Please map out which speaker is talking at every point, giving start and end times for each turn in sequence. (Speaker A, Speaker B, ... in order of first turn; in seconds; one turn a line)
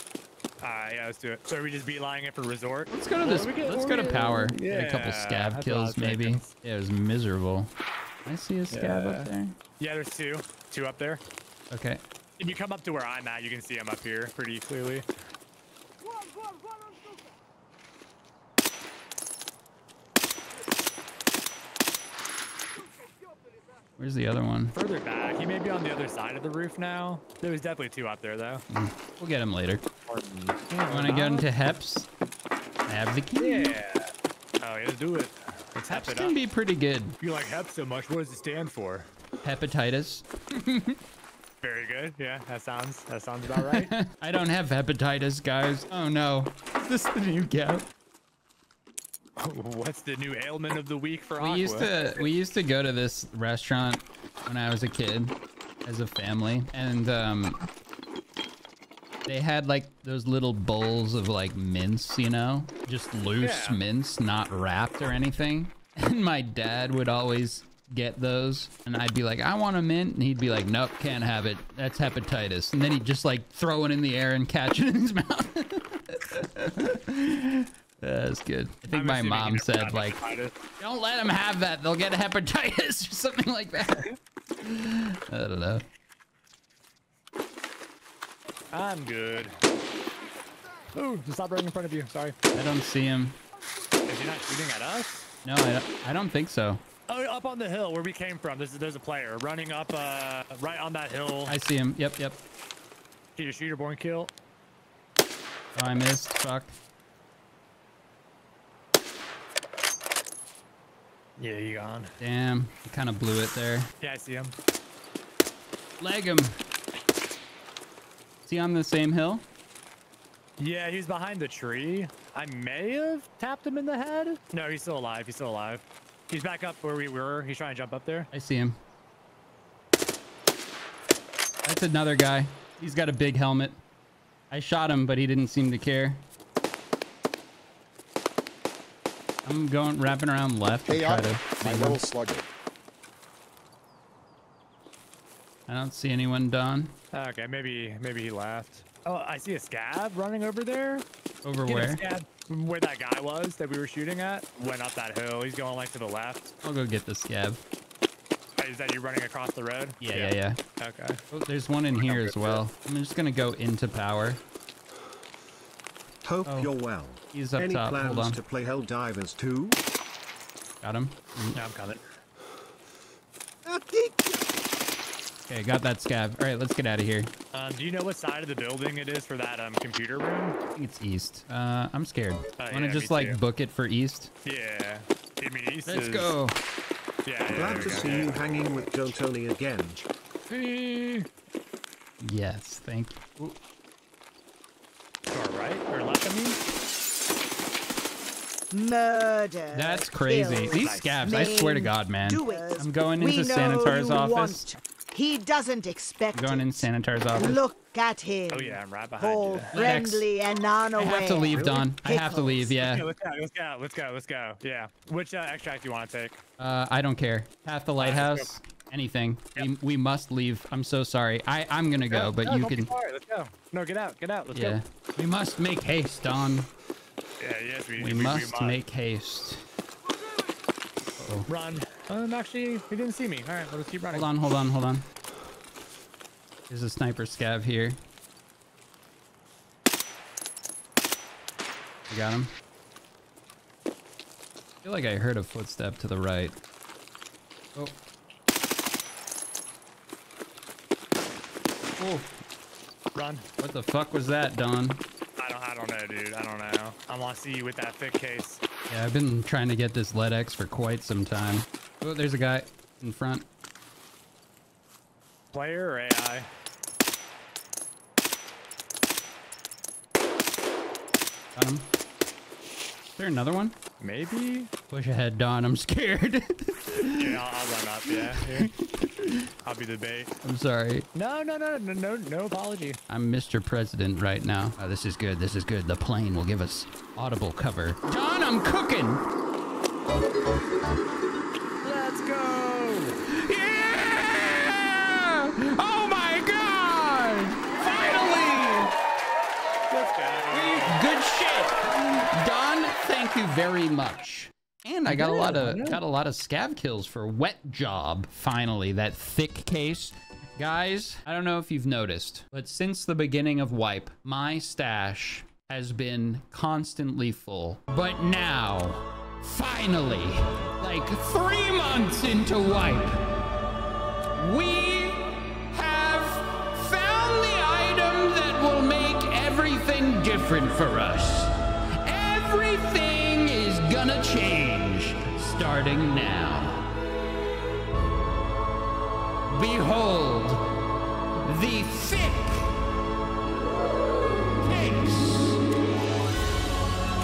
Speaker A: 0.6-6.5
Speaker B: 2.9-7.7
Speaker B: 8.2-9.6
Speaker A: 8.7-11.2
Speaker B: 11.7-12.0
Speaker A: 12.4-15.1
Speaker B: 24.0-24.8
Speaker A: 24.7-28.6
Speaker B: 28.7-29.8
Speaker A: 30.1-31.5
Speaker B: 30.9-32.1
Speaker B: 32.9-33.8
Speaker A: 33.4-36.4
Speaker B: 35.9-37.2
Speaker A: 37.2-39.1
Speaker B: 39.4-41.0
Speaker A: 41.6-43.9
Speaker B: 43.5-47.9
Speaker A: 49.4-52.2
Speaker B: 51.4-57.6
Speaker B: 59.3-80.2
Speaker A: 63.4-63.8
Speaker A: 78.9-80.6
Speaker B: 80.8-84.1
Speaker B: 84.6-85.8
Speaker A: 88.7-89.6
Speaker A: 90.9-92.4
Speaker B: 92.5-93.4
Speaker A: 94.1-95.2
Speaker B: 95.5-96.8
Speaker A: 97.1-101.5
Speaker B: 101.5-102.4
Speaker A: 103.4-104.3
Speaker B: 105.8-106.8
Speaker A: 111.4-112.1
Speaker B: 112.2-113.9
Speaker A: 114.0-114.5
Speaker B: 116.0-116.5
Speaker B: 118.5-119.5
Speaker A: 120.6-128.3
Speaker B: 128.3-128.8
Speaker B: 131.7-133.8
Speaker B: 134.5-136.2
Speaker B: 139.4-142.0
Speaker C: 140.9-142.5
Speaker B: 145.7-146.9
Speaker A: 147.1-151.1
Speaker B: 151.4-152.0
Speaker A: 151.7-156.5
Speaker B: 156.6-157.6
Speaker A: 158.6-161.2
Speaker B: 160.0-160.6
Speaker B: 161.3-164.4
Speaker A: 161.9-162.6
Speaker C: 166.2-169.8
Speaker B: 166.4-166.7
Speaker B: 167.3-168.4
Speaker B: 170.8-171.6
Speaker A: 171.6-172.0
Speaker D: 173.7-174.3
Speaker B: 175.5-177.3
Speaker A: 177.5-180.6
Speaker B: 180.8-184.3
Speaker A: 182.6-183.4
Speaker A: 184.4-186.3
Speaker B: 185.9-186.6
Speaker A: 187.2-188.8
Speaker C: 187.5-190.0
Speaker A: 190.5-191.3
Speaker B: 192.2-193.6
Speaker A: 195.3-196.6
Speaker D: 198.7-212.8
Speaker B: 199.7-204.7
Speaker A: 200.8-201.5
Speaker B: 206.3-207.6
Speaker A: 208.5-209.9
Speaker B: 209.7-210.3
Speaker B: 211.0-213.1
Speaker A: 211.5-211.8
Speaker A: 212.8-216.4
Speaker B: 216.6-222.9
Speaker A: 218.0-218.5
Speaker A: 222.1-224.8
Speaker B: 224.5-226.7
Speaker A: 227.4-228.8
Speaker B: 228.0-229.6
Speaker B: 231.2-231.5
Speaker A: 231.5-234.3
Speaker B: 234.1-235.1
Speaker B: 236.7-238.0
Speaker B: 242.1-242.5
Speaker B: 244.8-246.6
Speaker B: 252.0-252.3
Speaker A: 253.2-253.4
Speaker B: 253.6-255.0
Speaker A: 255.4-258.6
Speaker B: 258.9-263.5
Speaker A: 265.5-266.5
Speaker B: 271.6-271.9
Speaker B: 273.2-273.8
Speaker A: 274.0-274.7
Speaker B: 274.9-277.4
Speaker A: 277.2-278.7
Speaker B: 278.1-279.5
Speaker A: 279.6-280.3
Speaker B: 280.4-281.1
Speaker A: 281.1-283.0
Speaker B: 283.1-289.2
Speaker A: 291.8-293.2
Speaker B: 293.3-298.9
Speaker A: 299.9-301.0
Speaker B: 300.5-323.2
Speaker A: 305.1-306.0
Speaker B: 324.4-336.9
Speaker B: 339.5-340.6
Speaker B: 341.4-342.8
Speaker B: 344.5-345.6